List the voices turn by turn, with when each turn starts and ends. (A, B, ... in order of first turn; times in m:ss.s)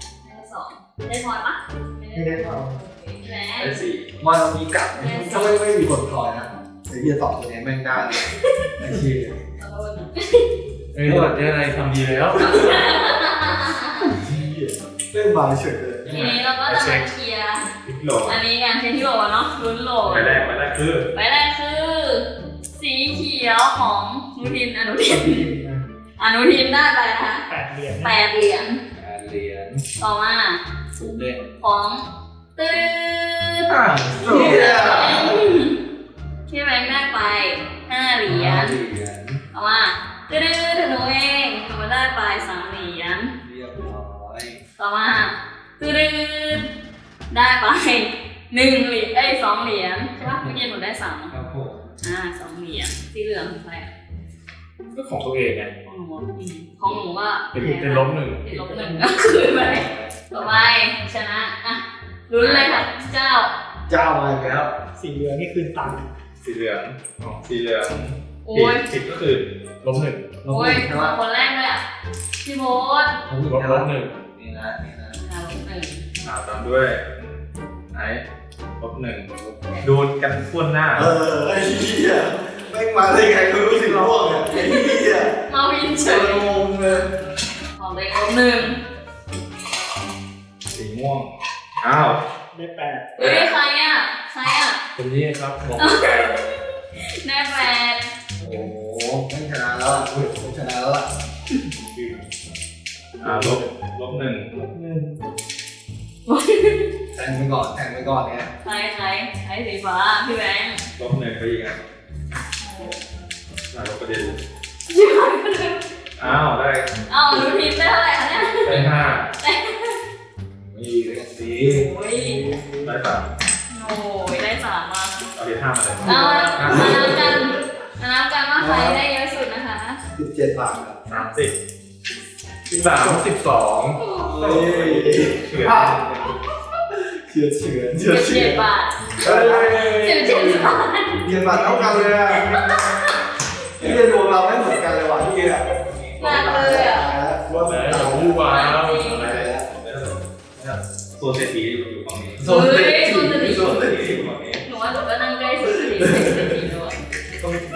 0:00.2-0:03.8 A
0:02.1-0:02.8 B
0:03.6-0:04.2 C
0:04.2-0:09.4 D
0:04.9-0:05.6 A
0:08.1-0:08.8 A
0:09.6-0:10.5 A
0:10.9-0:12.9 E
0:11.0-0:11.3 D
0:12.3-0:14.2 A
0:14.0-0:16.4 D
0:16.1-0:17.7 A
0:16.2-0:17.0 E
0:17.9-0:18.4 C
0:18.2-0:20.4 A
0:20.1-0:21.1 C
0:21.1-0:25.5 A
0:25.1-0:25.8 B
0:26.2-0:27.5 A
0:27.5-0:28.2 B
0:28.0-0:28.8 A
0:28.9-0:29.8 D
0:30.0-0:30.6 A
0:31.0-0:31.4 D
0:31.6-0:35.8 A
0:33.7-0:34.1 C
0:33.9-0:35.6 D
0:36.5-0:38.8 A
0:38.3-0:39.4 D
0:39.5-0:43.3 A
0:43.4-0:44.6 D
0:44.8-0:46.7 A
0:47.3-0:51.3 A
0:51.3-0:52.0 D
0:52.0-0:53.9 A
0:54.9-0:55.7 E
0:55.8-1:03.5 A
0:57.5-1:00.1 E
1:03.9-1:04.8 D
1:05.0-1:06.0 B
1:06.4-1:09.5 C
1:08.4-1:08.9 A
1:09.8-1:10.3 E
1:10.4-1:11.2 D
1:10.5-1:11.8 A
1:12.4-1:13.2 A
1:13.3-1:15.2 D
1:13.4-1:14.2 E
1:15.2-1:16.0 A
1:16.2-1:17.4 C
1:17.9-1:18.2 C
1:18.8-1:21.1 C
1:21.0-1:25.4 D
1:24.4-1:26.5 A
1:26.0-1:27.1 D
1:27.8-1:28.8 A
1:30.7-1:32.2 C
1:32.5-1:33.3 B
1:33.2-1:34.8 A
1:35.0-1:36.4 E
1:35.8-1:38.1 A
1:38.4-1:41.1 D
1:41.9-1:42.3 C
1:43.2-1:44.7 C
1:43.2-1:43.6 D
1:44.7-1:45.1 D
1:46.3-1:46.9 A
1:47.1-1:48.5 D
1:48.6-1:50.8 A
1:51.0-1:51.8 C
1:52.6-1:53.0 A
1:53.7-1:54.4 C
1:54.9-1:55.9 A
1:56.2-1:56.9 C
1:57.1-2:00.0 A
1:58.6-1:59.3 C
2:00.7-2:03.0 D
2:01.7-2:02.4 A
2:02.8-2:03.3 C
2:03.7-2:05.2 A
2:05.4-2:07.2 C
2:06.0-2:10.0 A
2:06.1-2:06.9 E
2:06.4-2:07.4 D
2:08.6-2:09.0 D
2:10.2-2:11.0 D
2:11.1-2:11.5 C
2:12.7-2:14.0 E
2:14.0-2:14.6 A
2:14.3-2:16.1 D
2:14.4-2:16.3 C
2:16.9-2:18.6 D
2:18.0-2:21.3 A
2:19.2-2:19.8 D
2:19.2-2:20.8 E
2:21.2-2:22.6 D
2:21.3-2:22.2 B
2:22.3-2:23.2 A
2:23.8-2:28.5 D
2:26.2-2:27.1 A
2:26.2-2:26.8 C
2:27.5-2:29.5 E
2:27.5-2:28.2 C
2:28.4-2:29.3 A
2:29.1-2:29.7 D
2:29.6-2:34.6 C
2:32.4-2:34.3 D
2:32.4-2:33.8 A
2:34.6-2:37.0 A
2:35.8-2:36.6 D